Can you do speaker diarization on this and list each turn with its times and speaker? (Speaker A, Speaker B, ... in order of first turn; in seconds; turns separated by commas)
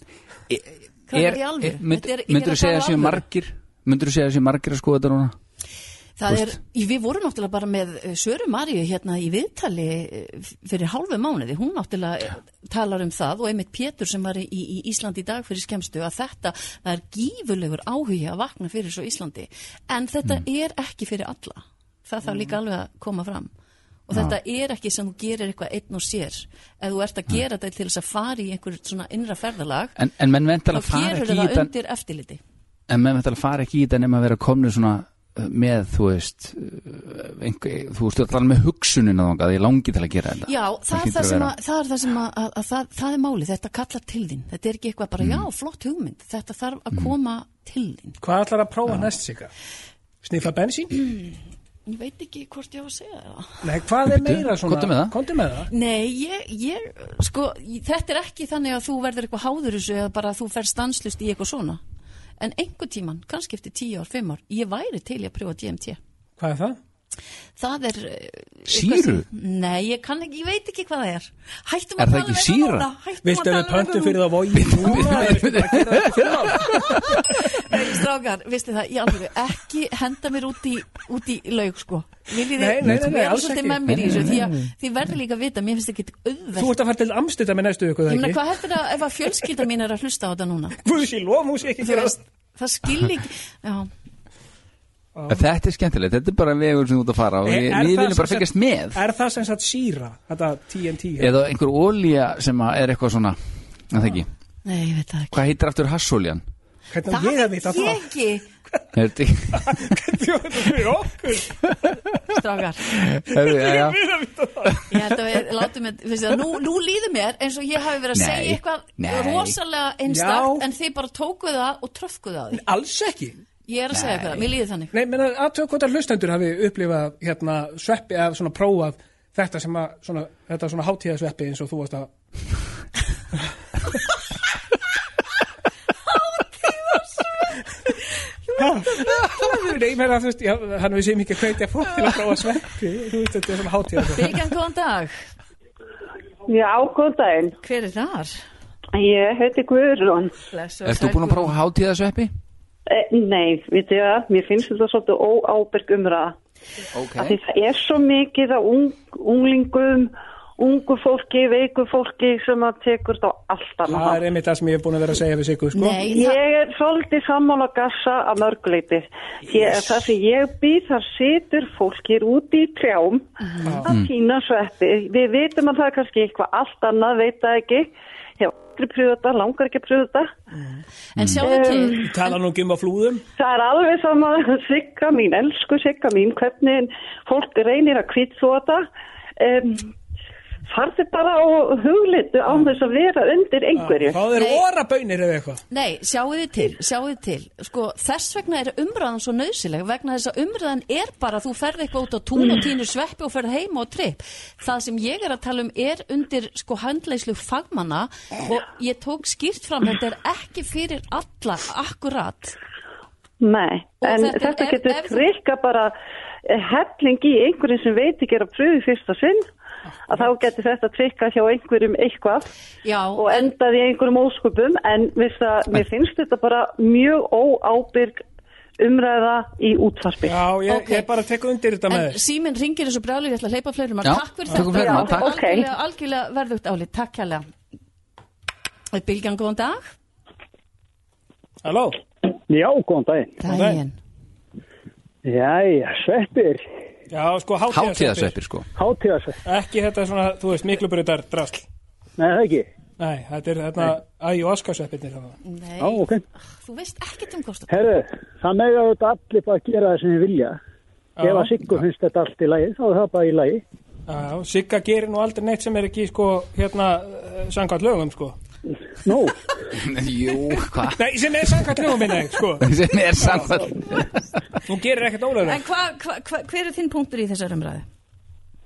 Speaker A: 0.5-5.3, Speaker B: 1.1-3.2, Speaker B: 6.2-23.5, Speaker B: 24.1-30.0, Speaker A: 30.0-31.7, Speaker B: 30.7-32.4, Speaker A: 32.9-41.5, Speaker B: 40.5-48.2, Speaker C: 48.2-49.5, Speaker C: 50.2-50.9, Speaker B: 50.9-53.6, Speaker C: 53.6-55.7, Speaker A: 54.1-55.1, Speaker B: 55.7-61.8, Speaker B: 62.4-66.0, Speaker C: 66.4-66.8, Speaker B: 67.6-74.2, Speaker A: 68.7-69.3, Speaker A: 72.0-72.9, Speaker C: 73.2-77.0, Speaker A: 74.5-76.7, Speaker B: 76.8-86.8, Speaker C: 82.6-84.0, Speaker A: 83.9-84.5, Speaker C: 86.6-88.4, Speaker B: 88.1-90.8, Speaker C: 90.8-92.2, Speaker B: 91.8-93.9, Speaker C: 95.2-95.4, Speaker A: 95.3-99.0, Speaker C: 97.4-101.3, Speaker A: 101.2-103.4, Speaker A: 103.9-104.3, Speaker B: 104.7-105.4, Speaker A: 105.3-106.4, Speaker C: 106.9-108.1, Speaker B: 107.1-108.5, Speaker A: 109.0-109.7, Speaker C: 109.5-111.5, Speaker B: 112.3-112.8, Speaker A: 112.9-114.0, Speaker C: 113.3-114.8, Speaker B: 114.9-122.7, Speaker A: 118.1-119.6, Speaker C: 120.1-120.7, Speaker C: 122.5-123.4, Speaker B: 123.7-124.9, Speaker A: 123.9-124.4, Speaker C: 124.9-132.1, Speaker B: 136.4-137.2, Speaker B: 138.5-139.5, Speaker C: 138.6-144.4, Speaker B: 144.1-145.2, Speaker D: 146.5-147.6, Speaker B: 147.6-148.4, Speaker D: 148.9-150.3, Speaker B: 150.5-151.5, Speaker A: 150.8-152.3, Speaker D: 152.9-156.3, Speaker A: 156.9-157.4, Speaker D: 157.2-164.2, Speaker C: 163.9-166.0, Speaker B: 165.8-166.4, Speaker D: 166.1-180.3, Speaker B: 173.5-173.8, Speaker C: 173.6-173.9, Speaker C: 180.6-180.8, Speaker B: 181.2-182.3, Speaker D: 181.4-182.1, Speaker C: 182.0-183.2, Speaker D: 183.4-188.9, Speaker D: 189.4-189.9, Speaker D: 190.7-194.2, Speaker C: 193.8-195.6, Speaker B: 194.3-194.6, Speaker B: 195.7-212.6, Speaker D: 213.4-215.9, Speaker B: 214.0-215.3, Speaker D: 216.5-219.5, Speaker D: 220.1-222.5, Speaker B: 222.8-223.5, Speaker D: 223.2-228.2, Speaker D: 228.8-230.4, Speaker C: 230.2-232.2, Speaker B: 230.7-231.1, Speaker B: 231.9-237.5, Speaker A: 234.0-235.4, Speaker D: 234.7-235.7, Speaker B: 238.9-239.9, Speaker C: 241.6-242.0, Speaker E: 242.5-243.4, Speaker B: 243.4-243.9, Speaker C: 243.5-243.8, Speaker E: 245.2-246.7, Speaker C: 247.1-248.4, Speaker A: 247.7-248.7, Speaker E: 248.8-249.4, Speaker C: 249.5-251.7, Speaker E: 252.2-252.7, Speaker C: 253.0-255.4, Speaker B: 255.4-256.1, Speaker E: 255.8-256.2, Speaker B: 256.6-257.9, Speaker E: 257.7-260.6, Speaker C: 261.2-261.5, Speaker E: 261.2-263.6, Speaker C: 264.1-268.4, Speaker E: 269.1-269.4, Speaker A: 269.8-271.1, Speaker C: 271.0-272.6, Speaker A: 272.6-274.2, Speaker C: 273.2-273.6, Speaker C: 274.7-275.6, Speaker B: 275.4-277.9